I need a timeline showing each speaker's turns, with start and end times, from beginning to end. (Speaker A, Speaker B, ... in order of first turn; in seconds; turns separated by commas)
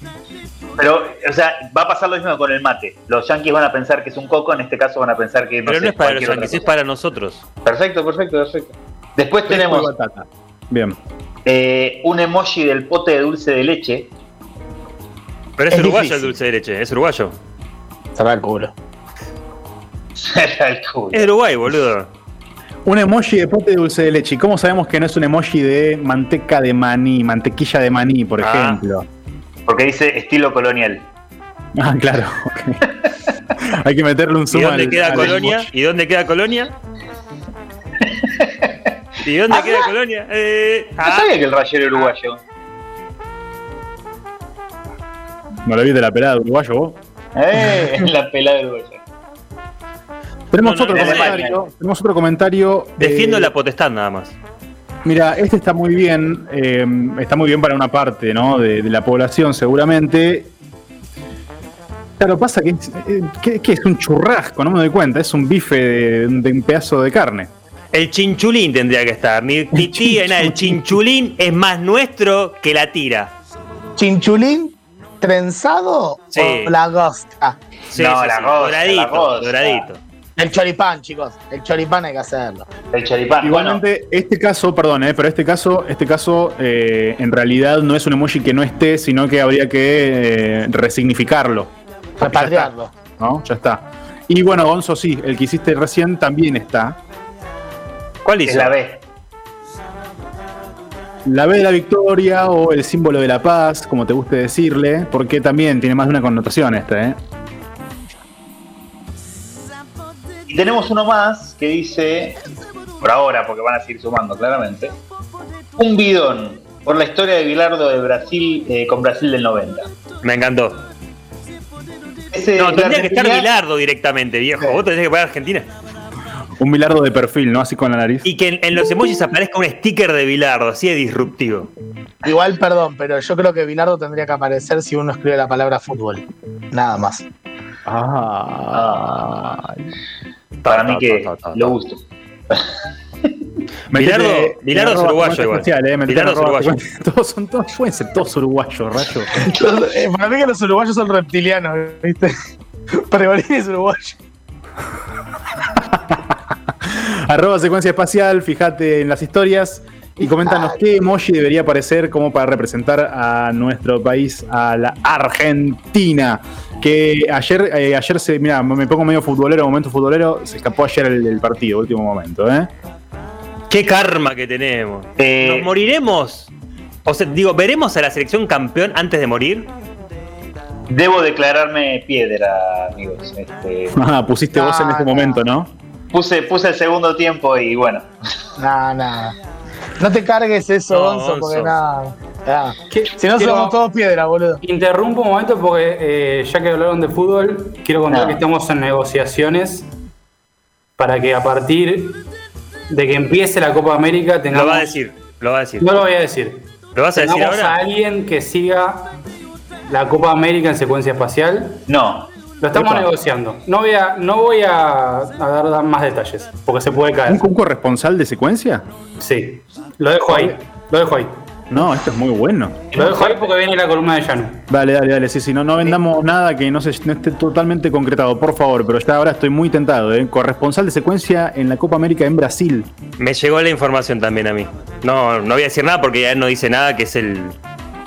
Speaker A: 0.8-6.7, Speaker B: 5.7-7.4, Speaker A: 7.6-9.9, Speaker C: 9.5-11.0, Speaker A: 11.4-14.1, Speaker B: 15.6-17.4, Speaker D: 15.7-16.3, Speaker D: 18.1-18.7, Speaker A: 20.2-21.3, Speaker B: 21.1-22.1, Speaker C: 22.9-29.1, Speaker B: 28.4-28.8, Speaker A: 29.7-31.0, Speaker C: 31.8-32.9, Speaker C: 33.5-35.7, Speaker B: 34.5-36.7, Speaker A: 35.1-35.5, Speaker A: 38.0-38.9, Speaker B: 39.2-41.3, Speaker A: 39.5-39.9, Speaker A: 41.0-42.4, Speaker C: 45.6-47.0, Speaker A: 47.3-49.0, Speaker C: 47.7-48.1, Speaker C: 50.5-53.5, Speaker B: 50.6-51.4, Speaker A: 50.9-51.6, Speaker B: 53.0-54.3, Speaker C: 55.0-60.5, Speaker C: 62.2-67.5, Speaker B: 67.9-73.3, Speaker C: 69.7-71.0, Speaker D: 74.0-77.6, Speaker B: 76.3-76.7, Speaker B: 77.9-80.0, Speaker A: 77.9-79.9, Speaker D: 80.4-82.7, Speaker A: 82.9-83.8, Speaker C: 83.4-97.0, Speaker D: 92.2-92.9, Speaker B: 98.2-98.7, Speaker A: 98.4-99.0, Speaker C: 101.2-107.2, Speaker A: 110.5-112.4, Speaker A: 113.0-115.0, Speaker A: 115.8-119.9, Speaker B: 120.2-120.8, Speaker A: 122.3-123.5, Speaker B: 122.5-125.7, Speaker C: 126.6-128.3, Speaker B: 128.2-131.7, Speaker D: 132.2-137.2, Speaker C: 137.8-139.9, Speaker A: 138.7-139.1, Speaker B: 140.6-141.7, Speaker A: 140.7-142.7, Speaker B: 143.9-146.8, Speaker C: 143.9-149.3, Speaker D: 149.4-152.3, Speaker D: 153.0-154.2, Speaker C: 155.7-172.7, Speaker D: 160.4-160.8, Speaker B: 173.7-176.5, Speaker A: 175.2-175.7, Speaker B: 177.1-179.7, Speaker A: 180.9-183.9, Speaker C: 183.9-185.7, Speaker D: 184.5-185.5, Speaker A: 186.1-188.1, Speaker D: 188.6-189.3, Speaker D: 190.0-194.6, Speaker B: 190.9-191.7, Speaker E: 192.9-193.8, Speaker E: 194.6-199.9, Speaker A: 198.1-198.4, Speaker E: 201.0-202.3, Speaker E: 202.9-205.0, Speaker B: 204.5-205.9, Speaker E: 205.8-209.2, Speaker B: 206.9-207.8, Speaker E: 209.9-211.8, Speaker A: 211.9-212.3, Speaker E: 212.6-217.4, Speaker C: 212.7-213.1, Speaker C: 217.2-218.8, Speaker E: 219.2-221.3, Speaker C: 220.3-220.6, Speaker C: 221.7-223.4, Speaker E: 222.9-224.6, Speaker C: 224.7-232.9, Speaker B: 233.2-237.6